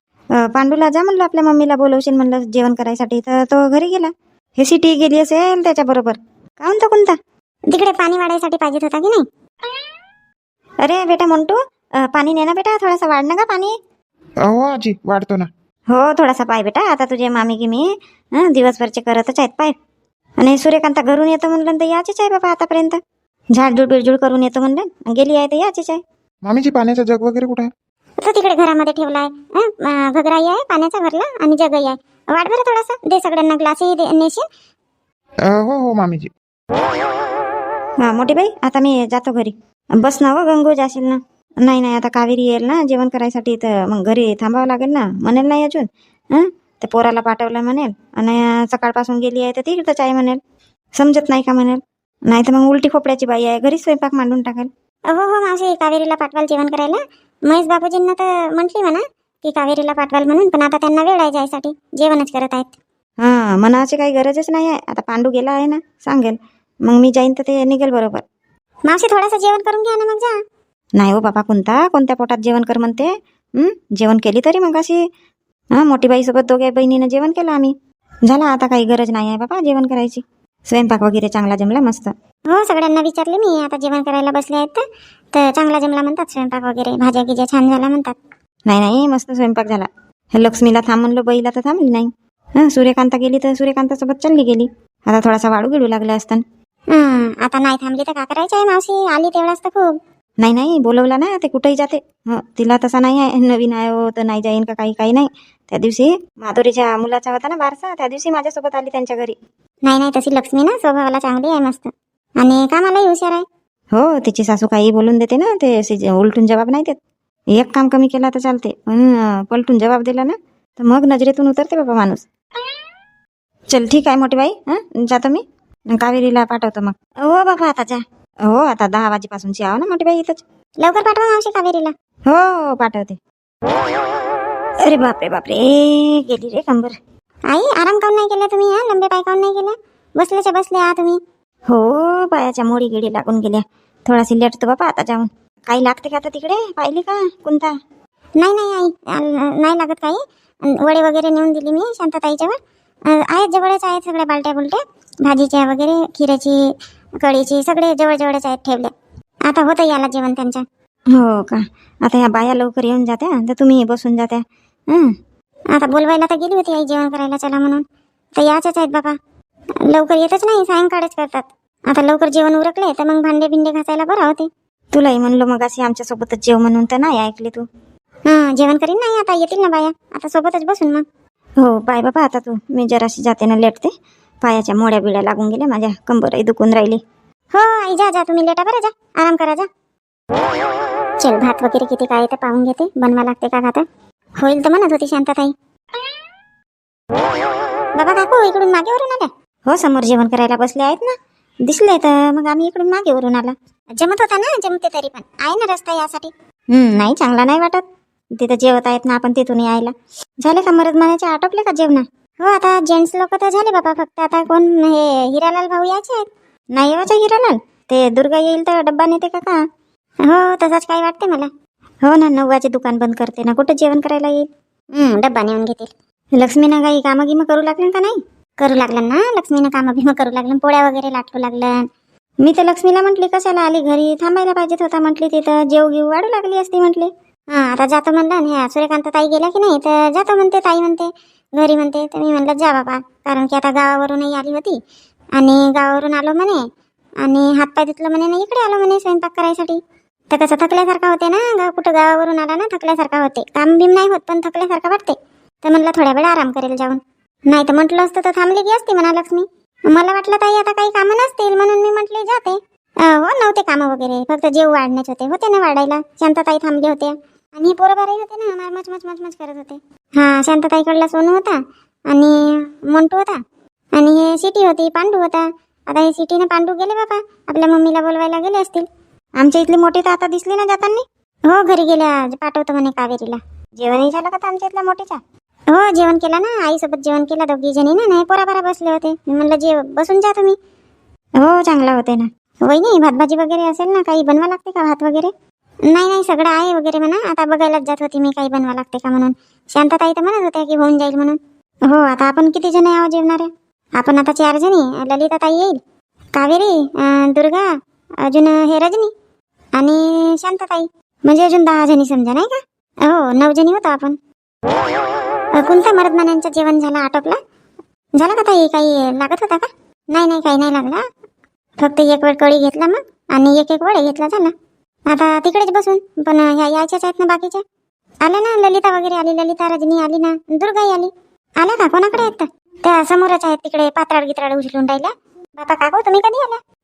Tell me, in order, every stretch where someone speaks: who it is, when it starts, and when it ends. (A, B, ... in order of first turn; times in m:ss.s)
0:00.4-0:07.2 A
0:07.7-0:09.2 B
0:10.8-0:13.8 A
0:14.4-0:15.5 C
0:15.9-0:19.7 A
0:20.4-0:23.0 A
0:23.6-0:26.0 A
0:26.4-0:27.7 C
0:28.2-0:34.4 B
0:35.5-0:36.3 C
0:38.0-0:50.4 A
0:51.0-0:54.7 A
0:55.1-1:02.8 B
1:03.2-1:08.2 A
1:08.9-1:10.3 B
1:11.0-1:15.0 A
1:15.8-1:17.7 A
1:18.3-1:22.1 A
1:22.5-1:28.2 B
1:28.7-1:32.1 A
1:32.6-1:36.4 A
1:36.9-1:39.9 B
1:40.4-1:49.4 A
1:49.9-1:53.4 B
1:53.9-1:57.0 A
1:57.6-2:02.2 A
2:03.7-2:10.4 A
2:10.8-2:11.9 B
2:12.3-2:13.2 A
2:14.8-2:17.0 A
2:17.5-2:21.2 B
2:21.7-2:27.7 A
2:28.4-2:36.6 B
2:37.2-2:38.9 B
2:39.5-2:40.6 B
2:41.1-2:45.1 A
2:45.7-2:47.8 B
2:48.4-2:49.2 B
2:49.9-2:54.5 B
2:54.9-2:57.6 A
2:58.3-3:01.0 B
3:01.6-3:03.9 A
3:04.4-3:07.0 A
3:07.5-3:09.7 B
3:11.2-3:13.8 B
3:14.4-3:15.5 B
3:18.0-3:19.3 B
3:19.7-3:21.2 A
3:21.7-3:23.6 A
3:24.0-3:26.3 B
3:26.7-3:27.8 A
3:28.4-3:32.0 A
3:32.4-3:36.3 B
3:36.7-3:39.6 A
3:40.3-3:41.5 B
3:42.0-3:44.5 A
3:45.0-3:45.9 B
3:46.4-3:48.2 A
3:48.6-3:51.8 B
3:52.4-3:57.1 A
3:57.5-4:04.8 B
4:05.4-4:06.7 B
4:07.2-4:33.4 B
4:34.0-4:38.8 B
4:39.4-4:41.0 A
4:41.5-4:43.4 B
4:43.8-4:45.2 A
4:45.7-4:50.6 B
4:51.4-4:52.3 A
4:52.6-4:55.3 B
4:55.9-5:05.8 B
5:06.4-5:07.7 B
5:08.2-5:09.1 B
5:09.8-5:14.2 B
5:15.6-5:17.4 B
5:18.2-5:21.0 B
5:21.8-5:24.5 B
5:25.1-5:27.6 B
5:28.2-5:36.6 B